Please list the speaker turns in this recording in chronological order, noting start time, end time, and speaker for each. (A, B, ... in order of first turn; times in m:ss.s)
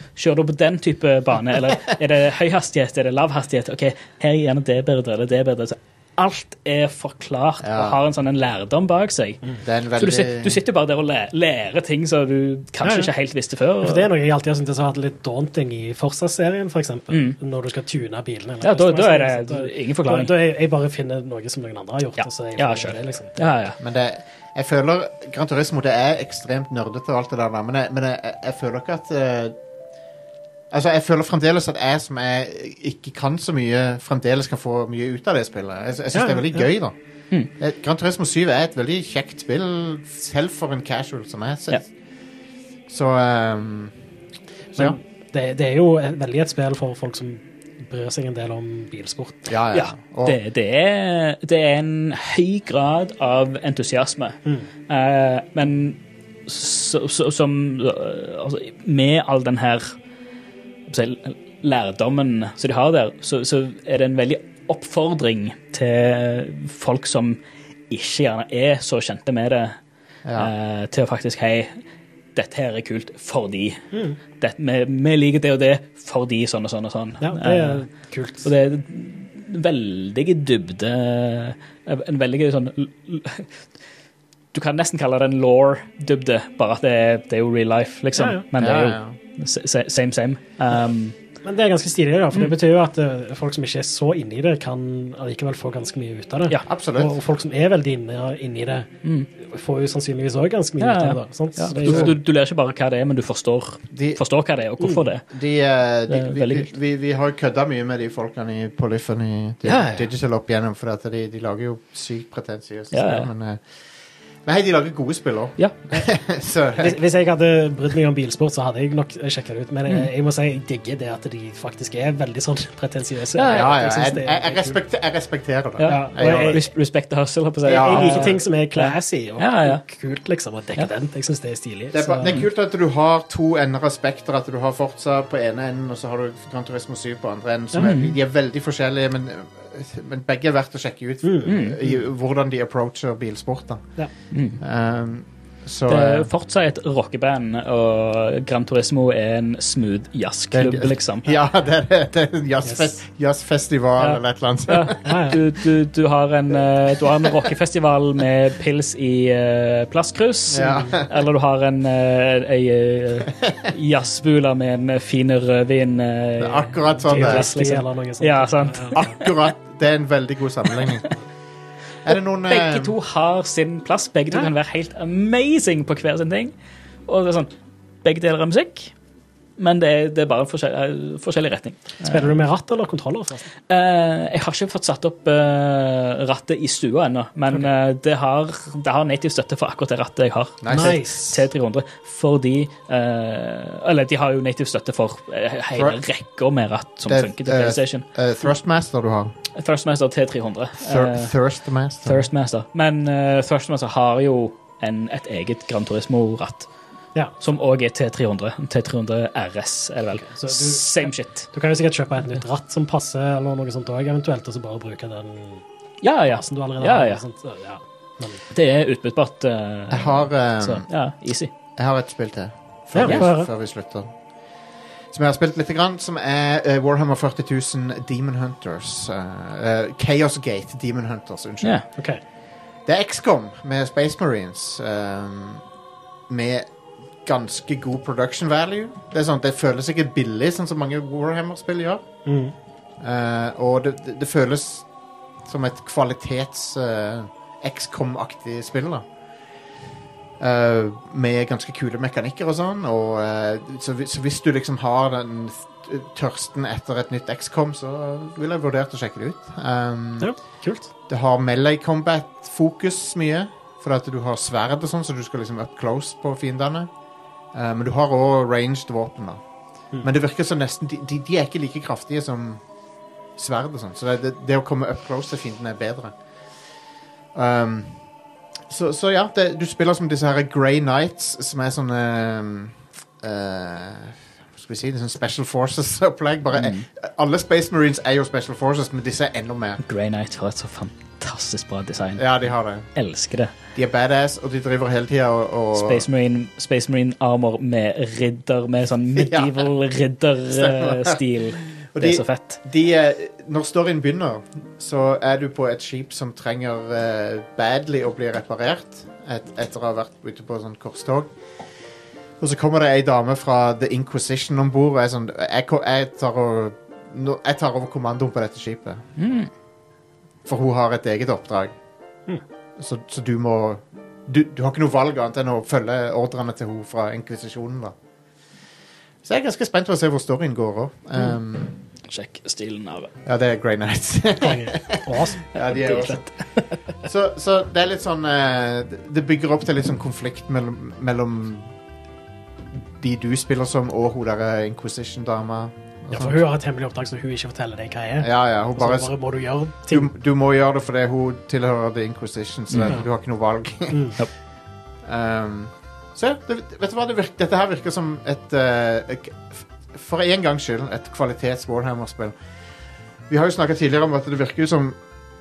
0:00.2-0:09.4 A
0:07.6-0:08.0 B
0:09.6-0:10.6 B
0:10.0-0:14.1 A
0:12.8-0:13.1 C
0:13.8-0:23.5 C
0:17.1-0:17.4 A
0:18.6-0:20.3 A
0:22.2-0:23.8 A
0:23.8-0:29.6 B
0:30.7-0:37.0 B
0:36.1-0:36.7 C
0:37.6-0:41.9 B
0:42.9-0:43.9 B
0:44.8-0:49.5 C
0:49.5-0:50.4 B
0:49.7-0:59.9 A
1:00.9-1:07.4 A
1:07.9-1:09.8 A
1:10.2-1:10.5 B
1:10.4-1:11.8 A
1:12.4-1:13.8 A
1:13.9-1:14.2 C
1:14.4-1:17.8 A
1:17.2-1:18.5 C
1:18.4-1:23.5 A
1:24.5-1:31.2 A
1:28.2-1:28.4 C
1:28.6-1:29.2 B
1:31.4-1:38.9 C
1:36.7-1:37.2 B
1:39.4-1:42.1 C
1:40.8-1:45.3 A
1:41.8-1:42.1 B
1:43.9-1:44.2 B
1:45.3-1:53.6 B
1:46.1-1:46.7 A
1:49.6-1:50.1 A
1:52.9-1:53.3 A
1:54.4-1:57.0 B
1:56.8-2:04.8 C
2:03.4-2:04.1 A
2:03.5-2:06.7 B
2:05.8-2:09.8 A
2:05.9-2:06.6 C
2:07.6-2:08.4 B
2:07.7-2:12.4 C
2:11.9-2:24.0 B
2:17.8-2:18.1 A
2:21.2-2:22.0 C
2:21.5-2:21.8 A
2:24.3-2:24.6 A
2:24.6-2:26.3 B
2:25.9-2:31.4 A
2:30.5-2:35.0 B
2:32.6-2:33.0 C
2:34.0-2:49.4 A
2:35.0-2:35.4 C
2:40.5-2:41.2 B
2:46.4-2:47.5 B
2:47.1-2:49.0 C
2:49.0-2:51.2 B
2:52.0-2:53.0 B
2:52.5-2:56.5 A
2:57.1-2:57.5 A
2:58.0-2:58.9 A
2:59.6-3:02.3 A
3:02.0-3:03.5 C
3:03.7-3:18.0 A
3:10.6-3:11.0 B
3:10.7-3:11.4 C
3:15.7-3:16.0 B
3:17.1-3:19.4 B
3:19.6-3:21.4 A
3:20.9-3:22.3 B
3:22.0-3:26.7 A
3:27.4-3:31.5 A
3:30.2-3:35.6 C
3:36.0-3:37.2 A
3:36.3-3:38.4 C
3:38.5-3:41.5 A
3:39.9-3:40.9 B
3:41.8-3:44.1 B
3:42.9-3:43.5 C
3:43.0-3:43.3 A
3:45.1-3:51.8 B
3:52.0-3:52.2 C
3:52.9-3:55.6 B
3:56.3-3:56.7 B
3:57.2-4:02.0 B
4:02.3-4:02.6 C
4:03.0-4:04.9 B
4:05.4-4:09.0 B
4:10.4-4:20.3 B
4:20.2-4:20.9 C
4:21.1-4:26.9 B
4:27.5-4:29.4 B
4:30.0-4:32.6 B
4:33.4-4:36.1 B
4:37.4-4:38.0 B
4:38.7-4:49.8 B
4:46.5-4:46.9 A
4:49.8-4:52.4 A
4:52.2-4:52.9 B
4:53.0-4:53.5 A
4:53.8-4:56.1 B
4:55.8-5:02.6 A
4:59.2-4:59.7 B
5:00.5-5:01.2 B
5:01.9-5:11.3 B
5:12.4-5:19.1 B
5:19.2-5:19.5 A
5:20.4-5:21.7 B
5:22.8-5:28.0 B
5:29.2-5:31.8 B
5:32.1-5:33.1 A
5:33.3-5:36.3 B
5:34.4-5:35.4 C
5:35.5-5:36.3 A
5:37.0-5:41.7 B
5:43.0-5:46.4 B
5:46.1-5:50.1 C
5:48.2-5:49.1 B
5:49.9-5:54.2 B
5:52.7-5:53.0 A
5:53.9-5:54.2 C
5:55.0-6:02.4 B
6:03.3-6:05.0 B